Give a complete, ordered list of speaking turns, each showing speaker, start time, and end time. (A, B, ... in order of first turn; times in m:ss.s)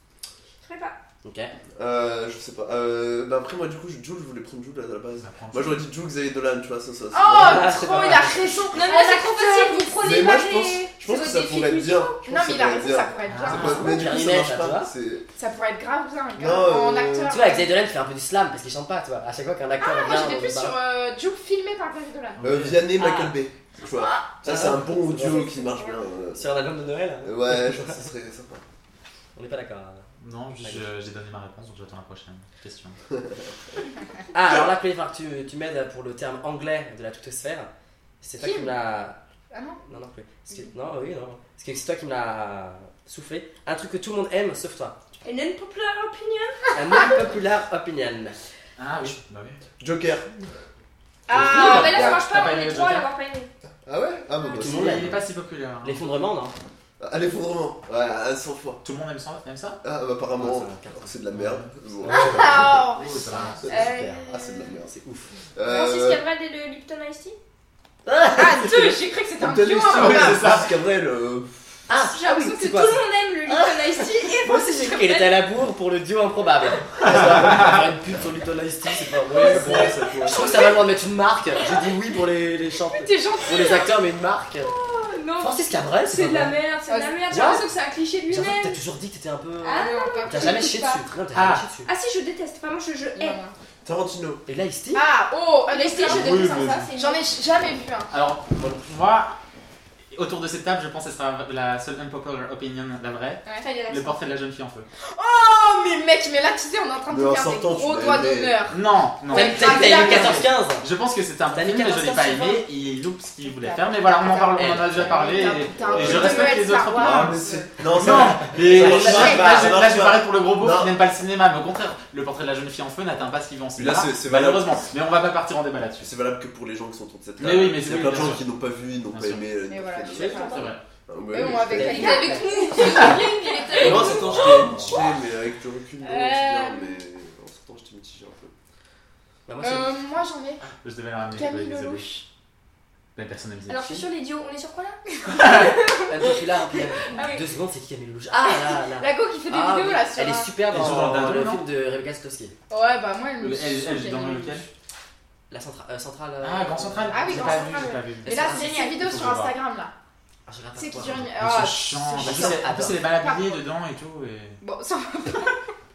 0:00.6-0:01.0 A
0:01.2-0:01.5 B
0:01.8-0:08.2 C
0:05.2-0:05.8 D
0:07.1-0:10.2 E
0:07.3-0:08.6 B
0:08.7-0:12.2 A
0:10.0-0:15.3 C
0:12.2-0:14.0 E
0:13.3-0:13.9 D
0:13.5-0:14.9 B
0:15.4-0:17.7 E
0:16.4-0:17.3 C
0:17.3-0:20.7 B
0:19.8-0:22.4 E
0:22.4-0:22.9 D
0:22.4-0:26.5 C
0:23.0-0:23.3 B
0:24.0-0:24.3 E
0:24.4-0:25.6 B
0:25.3-0:25.9 E
0:26.3-0:28.0 B
0:27.2-0:28.6 C
0:29.4-0:30.1 B
0:30.2-0:33.0 D
0:30.6-0:30.9 B
0:34.3-0:37.7 B
0:38.2-0:39.2 B
0:38.4-0:38.7 E
0:39.5-0:39.8 E
0:39.8-0:45.0 B
0:45.2-0:47.2 A
0:46.7-0:48.4 B
0:48.8-0:49.6 D
0:49.8-0:50.5 C
0:51.3-0:52.0 E
0:51.3-0:52.2 C
0:51.4-0:53.5 A
0:51.5-0:53.1 D
0:53.8-0:55.2 C
0:54.5-0:56.0 D
0:54.5-0:55.2 B
0:55.8-0:56.5 B
0:57.0-0:58.8 C
0:58.8-0:59.8 D
0:59.8-1:02.7 C
1:00.4-1:01.1 B
1:01.3-1:03.8 D
1:01.9-1:04.3 B
1:02.1-1:04.8 E
1:04.1-1:05.0 C
1:04.9-1:05.3 B
1:05.5-1:06.2 C
1:05.6-1:07.4 A
1:08.0-1:09.0 B
1:08.3-1:10.6 E
1:09.4-1:11.7 C
1:09.9-1:10.7 D
1:11.9-1:24.7 B
1:12.0-1:15.4 A
1:19.2-1:20.6 C
1:22.9-1:23.9 E
1:24.6-1:28.8 A
1:25.4-1:26.6 B
1:26.9-1:27.6 E
1:27.3-1:27.7 B
1:28.3-1:31.9 B
1:29.6-1:31.1 A
1:29.7-1:30.6 E
1:31.3-1:31.6 D
1:31.8-1:33.4 A
1:33.2-1:33.5 E
1:33.8-1:34.4 C
1:34.5-1:35.0 B
1:34.9-1:38.1 E
1:35.7-1:37.2 A
1:36.0-1:36.9 D
1:38.1-1:39.4 D
1:38.6-1:39.0 B
1:40.1-1:44.9 D
1:43.6-1:44.2 A
1:45.1-1:50.5 E
1:47.1-1:48.6 C
1:48.7-2:06.1 D
1:49.3-1:50.9 B
1:51.5-1:52.4 B
1:52.2-1:52.6 E
1:53.5-1:57.7 E
1:54.6-1:55.1 B
1:55.5-2:01.0 C
1:58.5-1:59.8 B
1:59.2-1:59.4 E
2:03.8-2:04.8 C
2:06.0-2:12.3 C
2:07.4-2:08.5 D
2:07.8-2:08.4 B
2:09.1-2:09.4 D
2:09.7-2:10.7 E
2:10.1-2:10.8 D
2:11.3-2:14.0 E
2:11.7-2:12.5 B
2:11.8-2:14.8 A
2:13.7-2:15.0 B
2:13.7-2:18.5 C
2:16.0-2:17.0 E
2:19.5-2:20.0 B
2:19.6-2:20.6 E
2:20.8-2:22.1 D
2:21.3-2:22.2 E
2:23.2-2:23.9 D
2:23.7-2:26.3 A
2:25.3-2:25.8 D
2:26.0-2:32.5 B
2:27.0-2:27.4 A
2:28.4-2:30.5 E
2:30.7-2:31.6 D
2:32.7-2:34.6 E
2:33.4-2:34.7 D
2:35.5-2:39.0 B
2:36.4-2:39.5 D
2:37.1-2:39.9 E
2:40.5-2:41.3 B
2:40.8-2:42.6 E
2:41.3-2:44.6 D
2:42.2-2:43.0 B
2:43.2-2:43.6 E
2:44.6-2:45.7 E